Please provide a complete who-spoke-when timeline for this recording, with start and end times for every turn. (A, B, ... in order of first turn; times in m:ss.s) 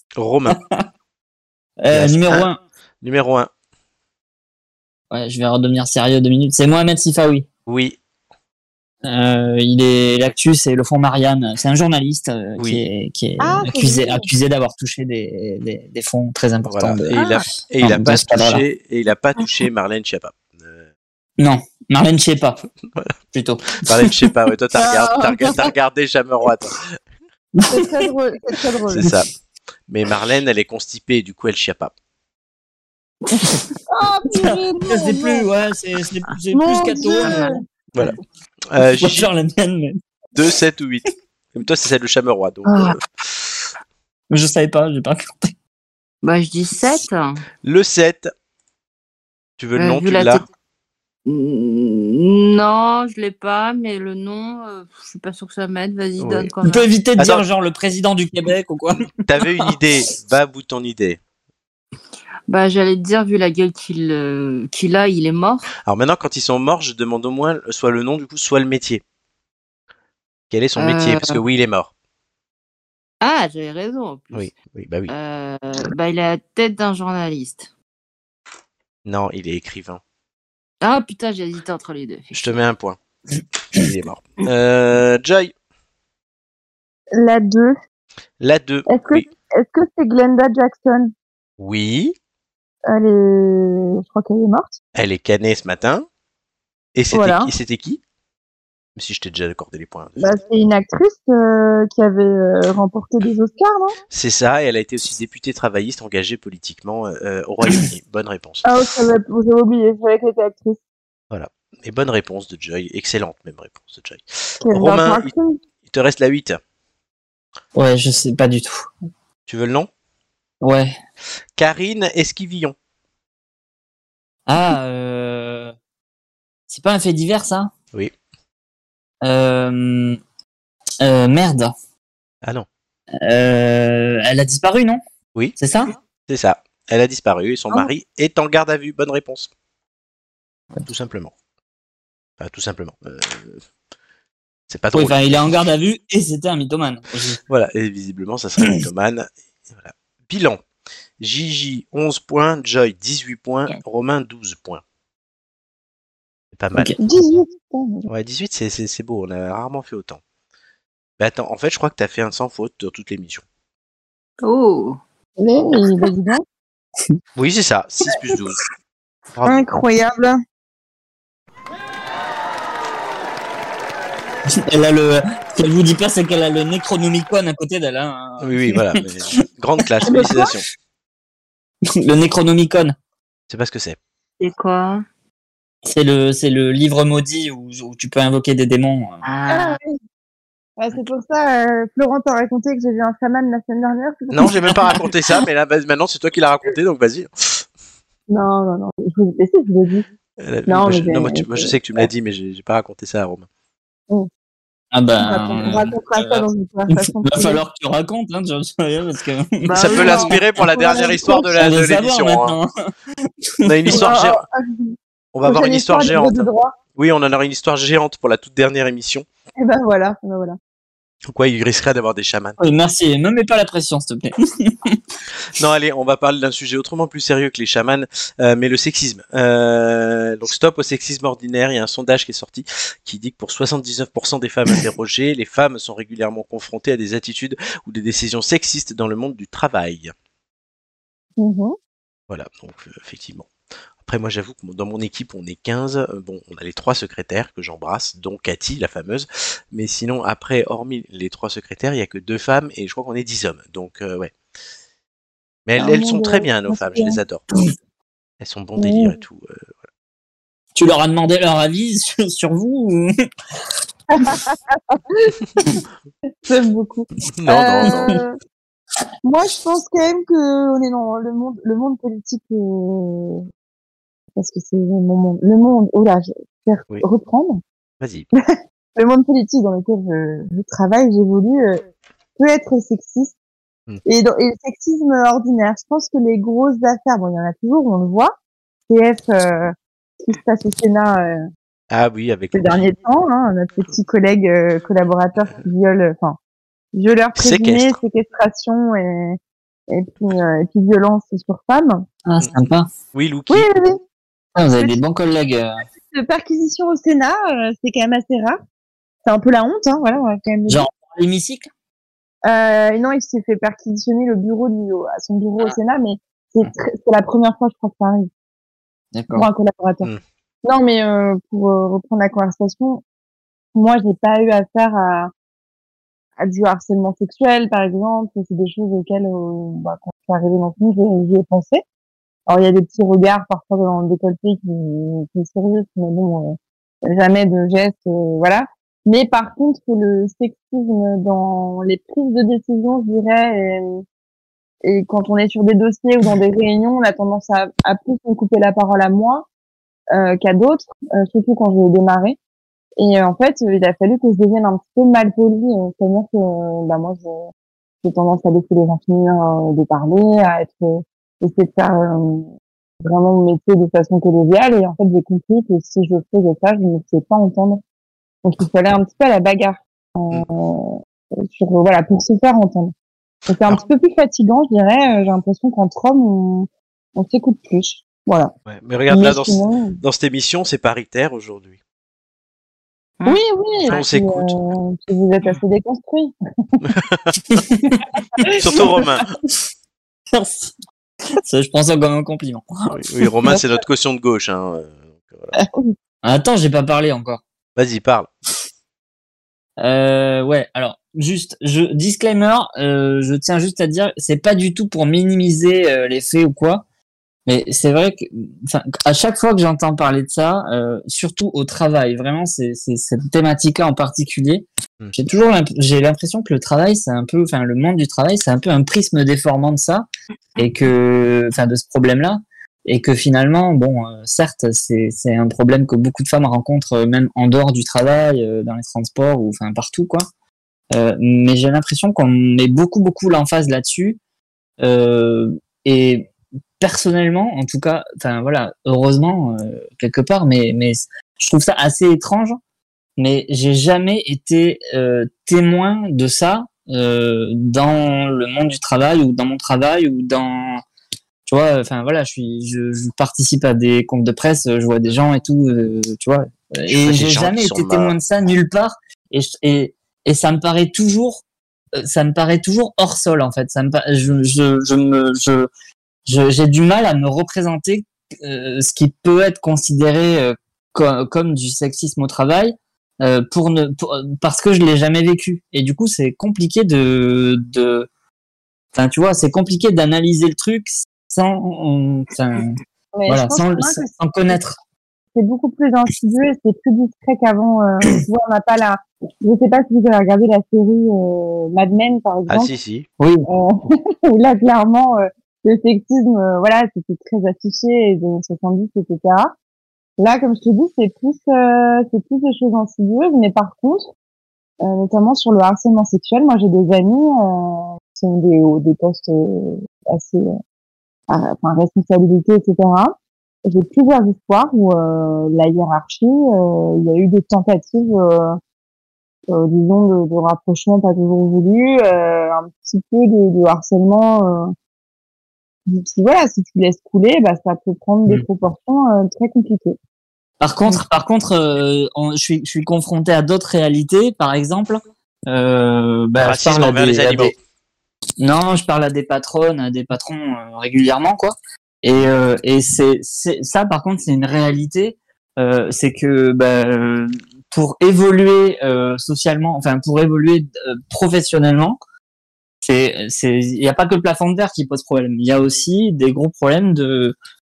0:00.2-0:00.6 A
0:00.5-0:00.8 B
0:01.8-0:02.6 B
0:01.9-0:02.5 A
0:03.0-0:03.5 A
0:05.1-0:07.4 B
0:07.7-0:08.0 A
0:09.0-0:17.2 B
0:12.6-0:12.8 A
0:13.4-0:14.3 C
0:16.7-0:20.8 A
0:17.8-0:18.6 B
0:21.4-0:22.6 B
0:23.3-0:24.2 B
0:23.8-0:26.9 A
0:27.5-0:28.0 B
0:27.7-0:29.1 C
0:29.0-0:29.3 A
0:29.9-0:31.9 A
0:33.4-0:33.7 B
0:33.9-0:35.5 C
0:34.3-0:38.2 B
0:36.5-0:37.6 C
0:37.2-0:37.5 D
0:38.7-0:39.3 A
0:38.8-0:40.0 B
0:40.3-0:43.0 A
0:44.3-0:45.5 B
0:46.2-0:47.4 D
0:47.6-0:48.3 A
0:49.6-0:50.4 A
0:49.8-0:50.4 D
0:51.2-0:56.8 D
0:56.2-0:56.5 A
0:56.6-0:59.1 B
0:57.2-0:57.4 A
0:59.2-1:01.2 A
1:02.5-1:05.7 D
1:05.8-1:09.0 A
1:10.5-1:11.9 A
1:10.8-1:11.4 D
1:13.2-1:14.5 D
1:14.3-1:15.1 A
1:15.1-1:17.7 D
1:19.0-1:20.0 A
1:20.8-1:22.5 D
1:22.3-1:23.0 A
1:23.7-1:25.5 A
1:27.1-1:27.8 C
1:28.4-1:29.3 A
1:28.9-1:31.1 C
1:31.6-1:32.1 A
1:32.9-1:34.8 C
1:34.9-1:36.0 A
1:36.9-1:38.0 A
1:37.1-1:37.5 C
1:39.0-1:40.3 A
1:40.2-1:44.0 C
1:44.1-1:48.6 A
1:48.6-1:50.8 C
1:51.3-1:55.3 A
1:54.6-1:55.6 C
1:55.9-1:56.6 A
1:57.7-1:58.9 B
1:59.5-1:59.9 A
2:00.6-2:01.0 B
2:01.6-2:02.7 A
2:04.5-2:05.7 B
2:06.7-2:07.7 B
2:09.2-2:10.2 B
2:11.0-2:11.7 B
2:13.2-2:15.0 B
2:15.6-2:15.9 B
2:16.3-2:19.5 A
2:20.8-2:21.3 A
2:22.4-2:23.6 A
2:24.7-2:25.6 A
2:24.9-2:27.4 B
2:27.5-2:30.6 A
2:31.2-2:34.8 A
2:36.5-2:36.9 A
2:37.0-2:38.1 C
2:38.1-2:40.2 A
2:41.2-2:43.4 A
2:44.4-2:45.0 D
2:45.4-2:46.4 C
2:47.4-2:48.6 A
2:49.3-2:49.7 A
2:49.4-2:50.4 C
2:54.7-2:58.9 B
2:58.4-3:00.6 A
3:00.1-3:00.5 C
3:02.0-3:02.9 B
3:03.5-3:04.0 A
3:04.4-3:05.0 D
3:05.8-3:09.2 B
3:09.2-3:09.8 D
3:09.5-3:09.9 C
3:10.8-3:15.0 C
3:14.3-3:17.6 A
3:18.3-3:20.0 C
3:20.4-3:23.5 A
3:20.7-3:22.1 C
3:24.9-3:30.5 B
3:25.2-3:27.6 C
3:29.6-3:31.5 C
3:29.7-3:32.6 A
3:31.6-3:32.7 B
3:33.6-3:33.9 B
3:33.6-3:34.4 A
3:33.9-3:36.8 C
3:35.3-3:39.2 A
3:39.6-3:40.6 C
3:41.3-3:42.6 A
3:42.6-3:45.0 B
3:45.5-4:00.1 A
4:01.4-4:01.8 C
4:02.3-4:03.5 A
4:04.0-4:14.3 A
4:15.6-4:17.4 A
4:15.8-4:17.2 C
4:18.4-4:19.7 A
4:18.8-4:19.1 C
4:20.7-4:23.1 B
4:24.1-4:25.4 C
4:26.4-4:28.3 C
4:27.4-4:28.1 A
4:29.2-4:33.5 C
4:34.4-4:37.6 C
4:38.0-4:38.3 A
4:39.0-4:41.8 C
4:42.4-4:43.3 C
4:44.0-4:48.3 C
4:48.9-4:51.4 C
4:51.9-4:52.9 A
4:52.5-4:56.4 C
4:56.9-4:59.4 C
4:57.4-4:58.0 A
4:59.9-5:02.0 C
5:02.2-5:02.9 B
5:03.1-5:03.7 A
5:03.5-5:04.0 C
5:04.6-5:05.8 B
5:06.0-5:08.6 C
5:09.2-5:10.8 C
5:10.7-5:11.7 B
5:12.4-5:18.3 C
5:19.1-5:19.5 B
5:19.3-5:20.1 C
5:20.6-5:23.0 C
5:23.7-5:25.3 C
5:26.4-5:31.8 C
5:32.5-5:44.0 C
5:44.8-5:49.4 C
5:50.1-5:52.4 C
5:53.0-5:57.5 C
5:58.0-6:02.5 C
6:03.0-6:07.8 C
6:08.4-6:10.9 C
6:11.4-6:12.9 C
6:13.5-6:18.5 C
6:18.7-6:21.8 A
6:19.1-6:20.0 C
6:23.2-6:24.0 D
6:23.2-6:26.8 C
6:23.9-6:24.6 A
6:26.8-6:27.3 A
6:27.5-6:28.0 B
6:28.4-6:29.0 C
6:28.6-6:29.3 A
6:30.3-6:30.7 B
6:31.4-6:32.9 B
6:32.9-6:35.6 A
6:35.6-6:35.9 C
6:36.2-6:37.4 B
6:37.8-6:38.3 A
6:39.8-6:46.8 B
6:47.4-7:00.0 B
7:00.6-7:10.2 B
7:10.9-7:14.2 B
7:14.8-7:16.3 B
7:16.8-7:22.6 B
7:23.2-7:30.8 B
7:31.4-7:41.4 B
7:36.9-7:38.2 A
7:42.0-7:45.7 B
7:46.2-7:58.1 B
7:58.9-8:04.8 B
8:03.1-8:04.6 C
8:05.3-8:12.7 C
8:12.5-8:13.1 A
8:13.2-8:13.4 B
8:13.5-8:19.5 C
8:20.2-8:24.1 C
8:24.8-8:30.5 C
8:31.3-8:33.1 C
8:33.6-8:38.6 C
8:39.5-8:44.7 C
8:45.9-8:50.0 C
8:50.6-8:57.5 B
8:56.4-8:57.5 A
8:58.4-9:12.0 B
9:12.8-9:17.3 B